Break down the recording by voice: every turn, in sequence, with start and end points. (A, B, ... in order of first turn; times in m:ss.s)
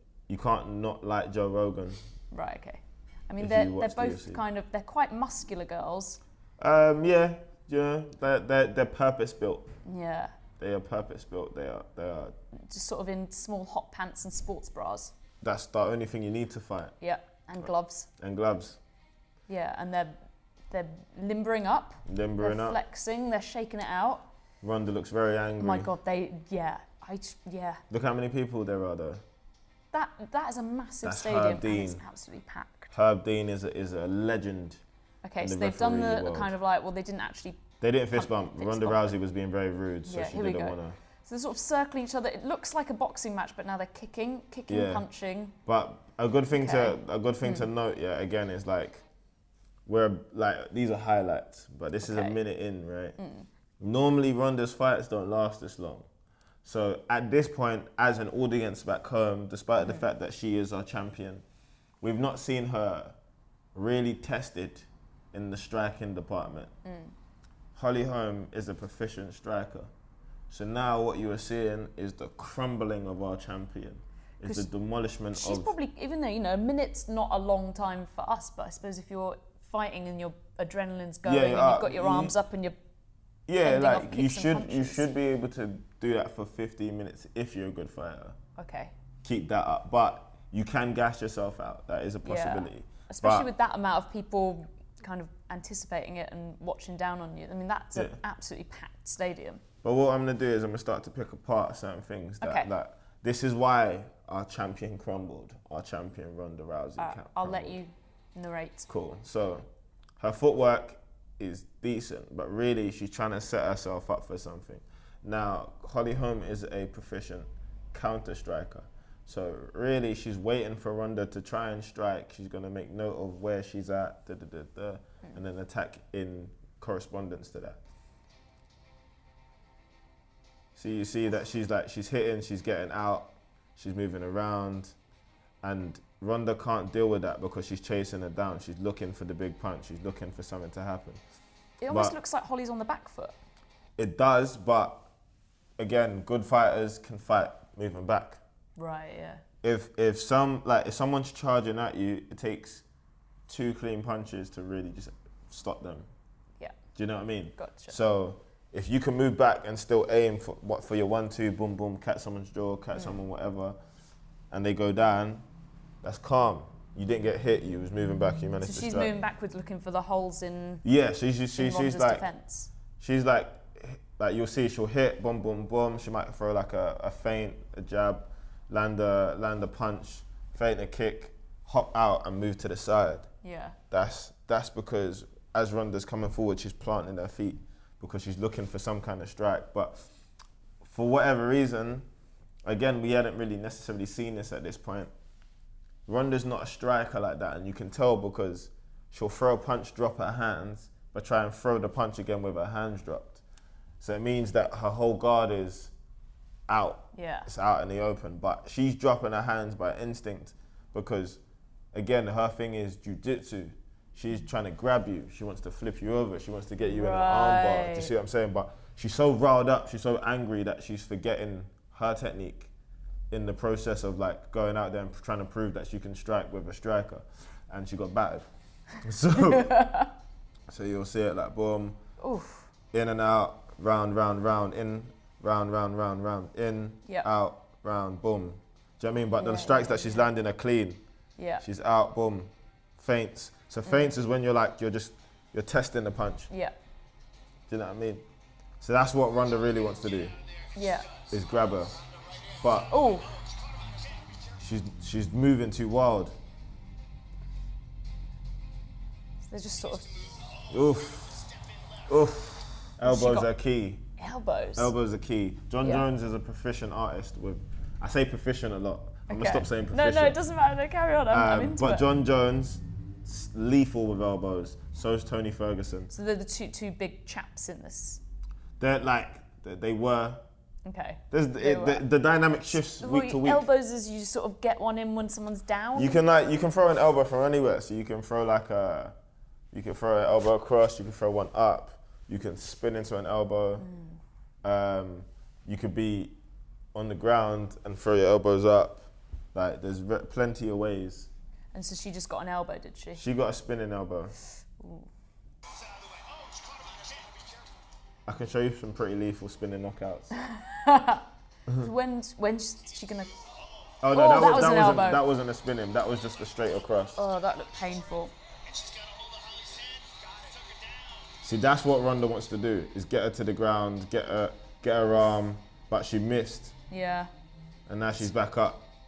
0:00.3-0:02.0 A
0:02.3-0:06.2 B
0:03.4-0:04.4 A
0:06.6-0:09.7 A
0:09.8-0:10.3 B
0:10.6-0:12.4 A
0:12.6-0:15.1 B
0:15.4-0:17.0 A
0:17.0-0:18.1 B
0:18.2-0:18.8 A
0:19.5-0:24.3 B
0:22.0-0:22.8 A
0:24.6-0:25.9 A
0:25.6-0:27.8 B
0:27.9-0:29.2 A
0:29.9-0:32.9 B
0:31.0-0:32.0 A
0:32.9-0:34.8 A
0:35.2-0:39.1 B
0:35.4-0:36.5 A
0:37.8-0:41.0 A
0:40.1-0:45.6 B
0:44.7-0:45.1 A
0:45.7-0:49.0 A
0:46.5-0:47.7 B
0:49.9-0:53.2 A
0:52.0-0:52.4 B
0:53.2-0:53.5 B
0:53.8-0:56.1 A
0:56.6-1:01.4 A
0:59.8-1:00.0 B
1:02.0-1:03.2 A
1:03.7-1:06.7 A
1:06.8-1:07.1 B
1:07.8-1:09.9 A
1:10.5-1:15.7 A
1:14.4-1:14.7 B
1:15.3-1:22.8 B
1:21.2-1:22.4 A
1:23.5-1:28.4 A
1:23.6-1:25.1 B
1:28.6-1:28.9 B
1:29.2-1:33.5 A
1:32.2-1:39.6 B
1:39.8-1:47.8 A
1:42.4-1:42.7 B
1:47.0-1:48.9 B
1:48.9-1:49.7 A
1:50.2-2:07.8 A
2:10.8-2:15.0 A
2:15.6-2:21.2 A
2:21.8-2:23.4 B
2:21.9-2:22.2 A
2:24.0-2:25.1 A
2:25.8-2:28.4 A
2:28.8-2:29.4 B
2:29.6-2:32.8 A
2:33.5-2:36.1 A
2:37.0-2:43.8 A
2:37.6-2:38.0 B
2:44.5-2:45.4 A
2:46.0-2:49.1 A
2:48.6-2:50.8 B
2:50.8-2:52.2 A
2:51.5-2:52.7 B
2:53.0-3:03.3 A
3:03.4-3:03.8 B
3:03.9-3:10.0 A
3:10.8-3:12.1 A
3:12.7-3:15.1 A
3:16.1-3:23.4 A
3:24.0-3:25.9 A
3:26.7-3:31.4 A
3:27.2-3:27.5 B
3:31.9-3:42.7 A
3:36.8-3:38.1 B
3:43.3-3:48.5 A
3:49.0-3:49.8 A
3:49.4-3:50.1 B
3:50.7-3:52.0 A
3:52.2-3:52.7 B
3:52.9-4:01.0 A
3:59.4-4:00.3 B
4:01.4-4:01.6 B
4:01.6-4:06.5 A
4:06.5-4:06.8 B
4:07.7-4:08.2 A
4:08.8-4:10.4 A
4:09.5-4:14.6 C
4:10.8-4:11.1 B
4:11.3-4:12.0 A
4:12.6-4:12.9 A
4:12.9-4:13.3 B
4:14.6-4:16.4 A
4:19.4-4:20.2 B
4:19.8-4:22.4 C
4:20.7-4:21.5 A
4:22.1-4:24.1 A
4:23.0-4:23.5 B
4:24.2-4:24.9 B
4:24.8-4:30.4 A
4:29.3-4:32.0 B
4:31.3-4:36.1 A
4:36.1-4:38.2 B
4:38.8-4:40.4 A
4:40.8-4:42.0 B
4:41.3-4:43.7 A
4:42.9-4:46.2 B
4:46.0-4:49.2 A
4:49.7-4:53.9 A
4:53.8-4:54.2 B
4:54.6-4:56.4 A
4:56.9-5:01.3 A
5:01.7-5:03.2 B
5:03.2-5:04.4 A
5:04.8-5:05.1 B
5:05.7-5:07.8 C
5:08.2-5:10.3 A
5:10.4-5:13.3 B
5:13.1-5:14.0 C
5:14.0-5:17.2 A
5:14.1-5:15.2 B
5:17.1-5:21.4 C
5:17.2-5:18.3 B
5:21.4-5:26.8 A
5:26.9-5:27.3 B
5:27.9-5:28.9 A